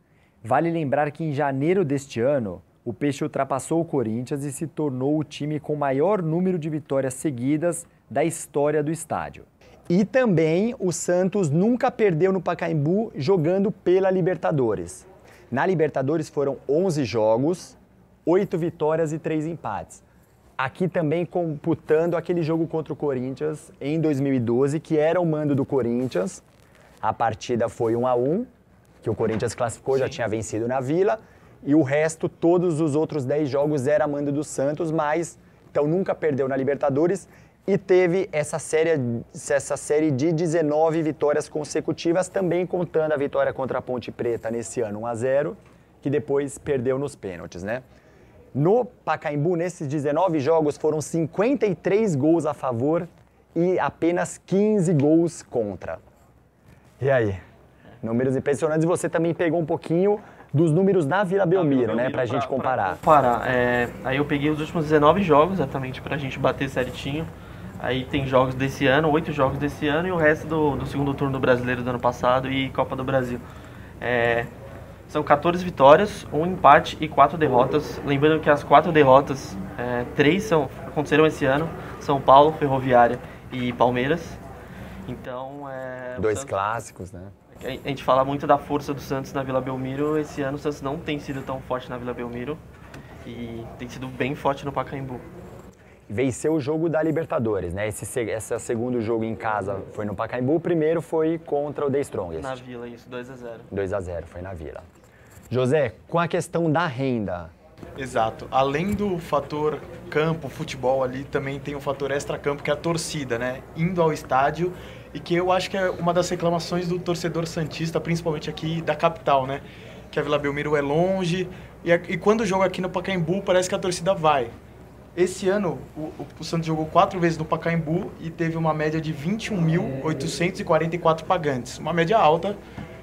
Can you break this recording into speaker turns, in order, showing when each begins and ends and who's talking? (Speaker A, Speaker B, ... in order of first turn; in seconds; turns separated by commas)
Speaker A: 0.4-20.0, Speaker A: 20.6-26.4, Speaker A: 27.0-28.5, Speaker A: 29.0-47.8, Speaker B: 29.9-30.2, Speaker A: 48.5-56.0, Speaker A: 57.0-57.4, Speaker A: 58.0-63.0, Speaker B: 61.5-73.4, Speaker B: 74.0-74.5, Speaker B: 75.1-84.4, Speaker B: 85.0-86.6, Speaker A: 86.2-87.3, Speaker B: 87.5-92.6, Speaker B: 93.2-95.3, Speaker A: 96.1-102.6, Speaker B: 102.3-103.7, Speaker A: 103.7-104.8, Speaker A: 105.5-107.5, Speaker C: 108.0-124.5, Speaker C: 125.1-132.6